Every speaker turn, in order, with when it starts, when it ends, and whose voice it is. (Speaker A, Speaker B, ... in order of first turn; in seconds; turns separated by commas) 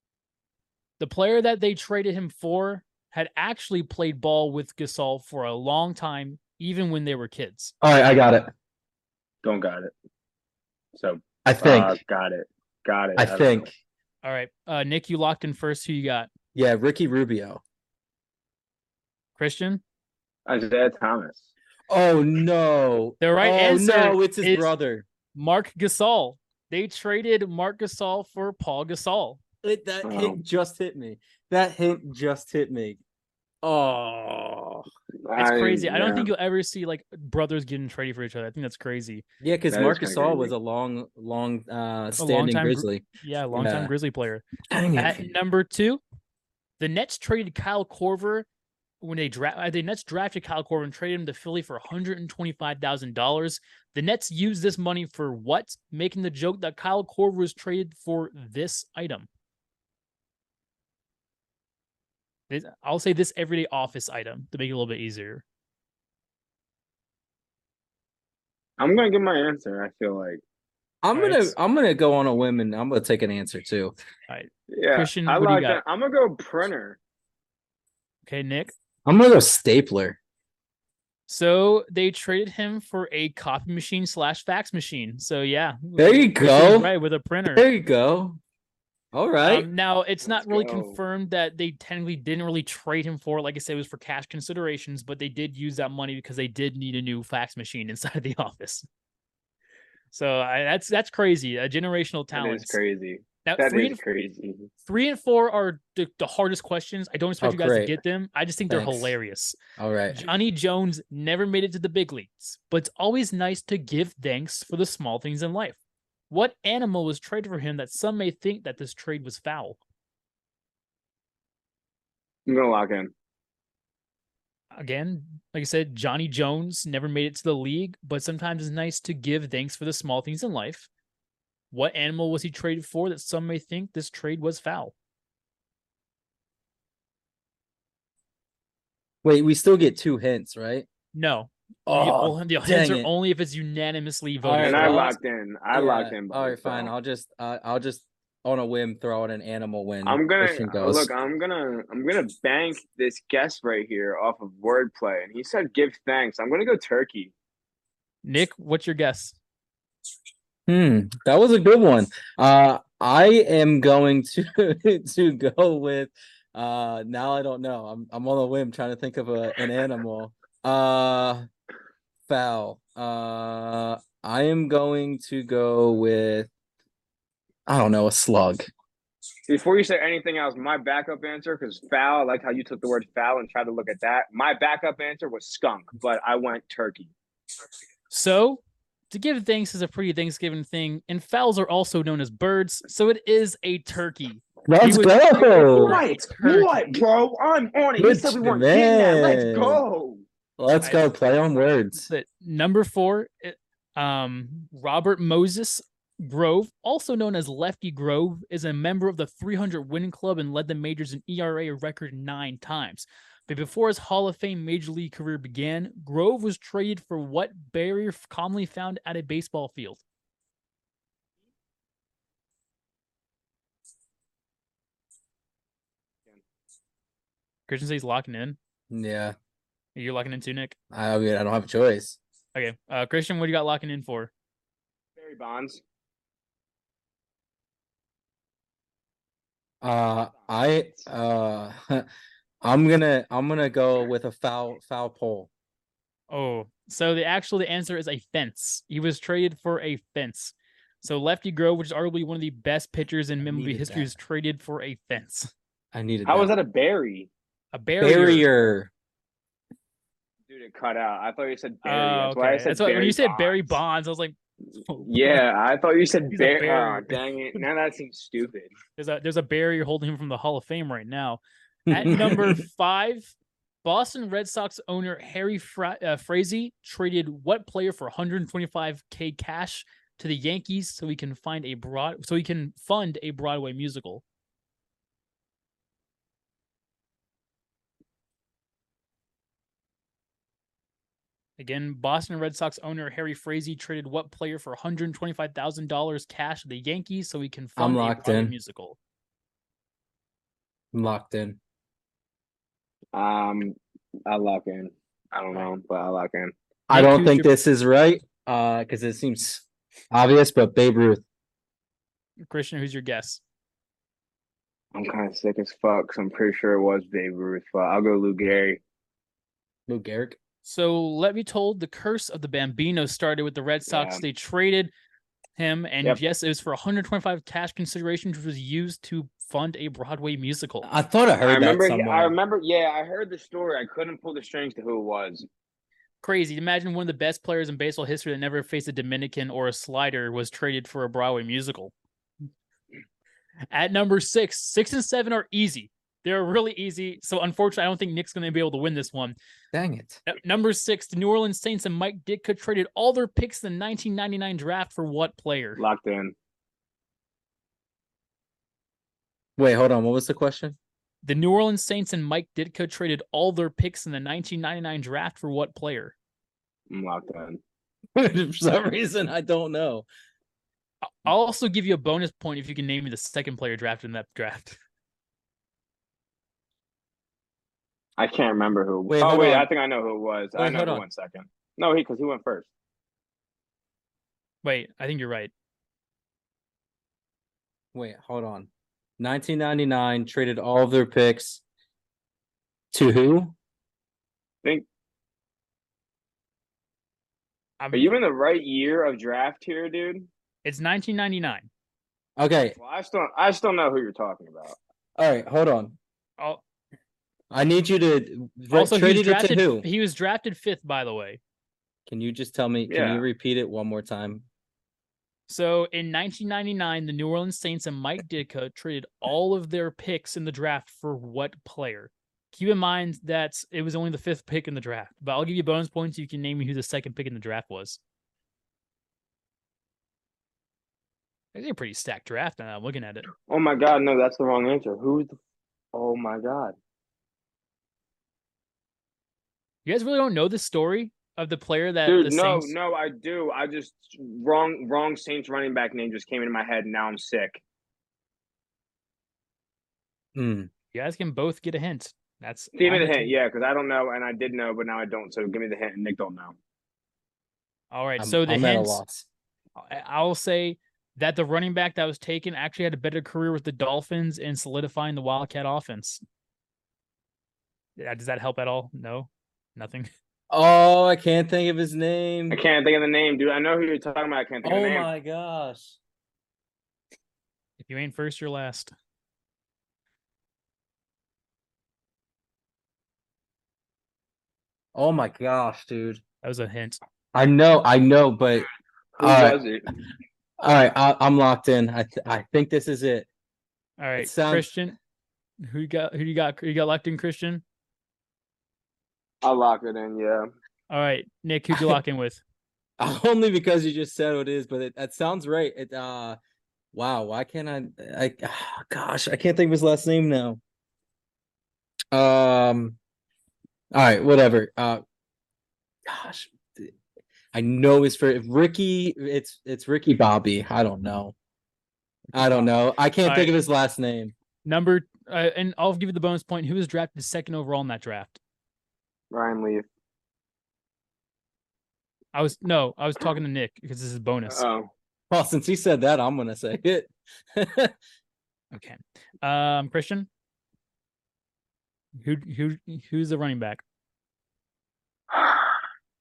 Speaker A: 1.0-7.7, Speaker B: 7.8-8.5, Speaker C: 9.4-9.9, Speaker C: 11.0-13.7, Speaker B: 11.4-12.0, Speaker B: 13.2-13.7, Speaker A: 14.2-16.3, Speaker B: 16.6-17.6, Speaker A: 19.4-19.8, Speaker C: 20.5-21.5, Speaker B: 21.9-25.1, Speaker A: 23.2-24.7, Speaker A: 25.4-29.4, Speaker B: 29.6-33.0, Speaker C: 30.0-30.4, Speaker B: 33.6-34.9, Speaker C: 35.2-36.3, Speaker A: 35.4-39.2, Speaker B: 39.4-43.9, Speaker C: 39.7-40.5, Speaker A: 42.2-44.4, Speaker B: 44.7-45.3, Speaker A: 45.0-46.0, Speaker A: 46.8-48.5, Speaker A: 49.0-59.3, Speaker A: 62.5-65.4, Speaker C: 68.8-70.4, Speaker B: 71.0-73.9, Speaker A: 71.1-71.5, Speaker A: 74.3-75.8, Speaker C: 74.7-77.0, Speaker A: 78.2-78.7, Speaker B: 79.0-80.2, Speaker A: 81.3-87.7, Speaker B: 86.0-86.9, Speaker B: 87.5-88.4, Speaker B: 89.1-89.7, Speaker A: 89.4-98.9, Speaker C: 90.2-91.0, Speaker A: 100.1-102.8, Speaker C: 102.3-104.7, Speaker A: 103.4-104.0, Speaker A: 104.9-109.6, Speaker B: 107.4-108.0, Speaker B: 108.7-109.2, Speaker B: 109.8-110.3, Speaker A: 110.1-115.8, Speaker A: 116.3-119.8, Speaker C: 122.5-123.1, Speaker A: 124.8-130.9, Speaker A: 131.7-134.9, Speaker B: 139.2-140.9, Speaker A: 141.1-145.1, Speaker B: 141.9-143.1, Speaker B: 144.4-145.2, Speaker C: 144.6-146.9, Speaker B: 145.7-151.1, Speaker C: 150.1-157.3, Speaker A: 158.2-159.4, Speaker B: 160.7-171.4, Speaker B: 172.3-176.5, Speaker B: 177.7-178.7, Speaker C: 179.5-187.1, Speaker A: 188.1-197.0, Speaker B: 194.7-196.0, Speaker C: 195.8-200.2, Speaker B: 198.0-199.8, Speaker B: 200.6-202.0, Speaker A: 200.8-201.1, Speaker A: 201.9-220.0, Speaker A: 227.7-228.6, Speaker B: 228.9-229.3, Speaker A: 229.9-230.8, Speaker B: 230.9-232.2, Speaker A: 232.6-234.3, Speaker C: 235.2-235.8, Speaker B: 239.8-242.1, Speaker B: 242.6-245.5, Speaker A: 246.3-255.5, Speaker B: 253.4-254.1, Speaker B: 255.9-256.5, Speaker C: 256.2-257.3, Speaker A: 257.7-258.5, Speaker B: 258.0-258.9, Speaker C: 260.5-263.8, Speaker A: 261.8-265.4, Speaker C: 265.0-268.7, Speaker A: 266.3-267.1, Speaker A: 269.0-284.2, Speaker B: 271.9-272.6, Speaker A: 291.6-299.0, Speaker B: 297.8-298.6, Speaker B: 300.9-301.6, Speaker C: 303.1-303.8, Speaker C: 304.3-306.5, Speaker B: 306.9-311.2, Speaker A: 306.9-307.5, Speaker A: 312.5-313.4, Speaker C: 314.9-318.8, Speaker B: 319.9-320.4, Speaker A: 320.6-324.9, Speaker C: 323.9-324.2, Speaker A: 325.6-330.9, Speaker B: 330.8-332.4, Speaker C: 331.4-335.4, Speaker A: 336.2-341.9, Speaker A: 343.7-349.4, Speaker B: 349.7-350.2, Speaker A: 350.3-355.8, Speaker C: 355.8-356.3, Speaker B: 359.6-360.8, Speaker A: 361.2-366.1, Speaker C: 366.9-367.6, Speaker B: 368.2-370.1, Speaker A: 371.0-374.8, Speaker C: 378.2-382.7, Speaker B: 379.1-379.7, Speaker B: 380.6-381.1, Speaker A: 384.6-385.5, Speaker B: 387.9-391.6, Speaker B: 392.9-393.6, Speaker A: 397.8-398.1, Speaker C: 397.9-400.3, Speaker A: 400.6-401.7, Speaker B: 402.4-402.8, Speaker C: 402.8-404.8, Speaker B: 405.2-406.0, Speaker B: 407.5-409.9, Speaker A: 408.7-411.4, Speaker B: 412.1-414.5, Speaker C: 412.9-413.2, Speaker A: 415.5-428.0, Speaker A: 431.5-433.3, Speaker C: 433.5-435.4, Speaker C: 435.9-436.8, Speaker A: 439.9-442.7, Speaker C: 442.1-447.6, Speaker B: 450.4-450.7, Speaker A: 450.9-453.4, Speaker C: 452.8-456.6, Speaker A: 457.9-459.0, Speaker B: 458.2-459.3, Speaker A: 459.8-466.2, Speaker A: 468.0-470.1, Speaker B: 470.5-472.6, Speaker C: 472.5-475.1, Speaker B: 474.6-476.0, Speaker A: 477.8-478.9, Speaker B: 485.0-486.2, Speaker A: 486.4-487.0, Speaker B: 487.3-488.7, Speaker C: 489.2-489.9, Speaker B: 489.2-489.6, Speaker B: 490.6-493.3, Speaker A: 494.0-495.0, Speaker B: 494.2-494.7, Speaker A: 495.6-497.6, Speaker C: 499.4-500.5, Speaker A: 500.9-502.4, Speaker B: 503.0-506.4, Speaker B: 506.9-510.6, Speaker B: 512.1-513.0, Speaker B: 513.9-515.0, Speaker B: 516.1-516.9, Speaker B: 517.5-521.3, Speaker B: 522.3-524.3, Speaker A: 523.2-523.6, Speaker A: 524.6-528.4, Speaker C: 529.3-529.9, Speaker A: 532.3-534.6, Speaker C: 534.5-534.9, Speaker B: 535.3-538.0, Speaker A: 538.7-540.3, Speaker A: 542.2-543.8, Speaker C: 545.3-545.8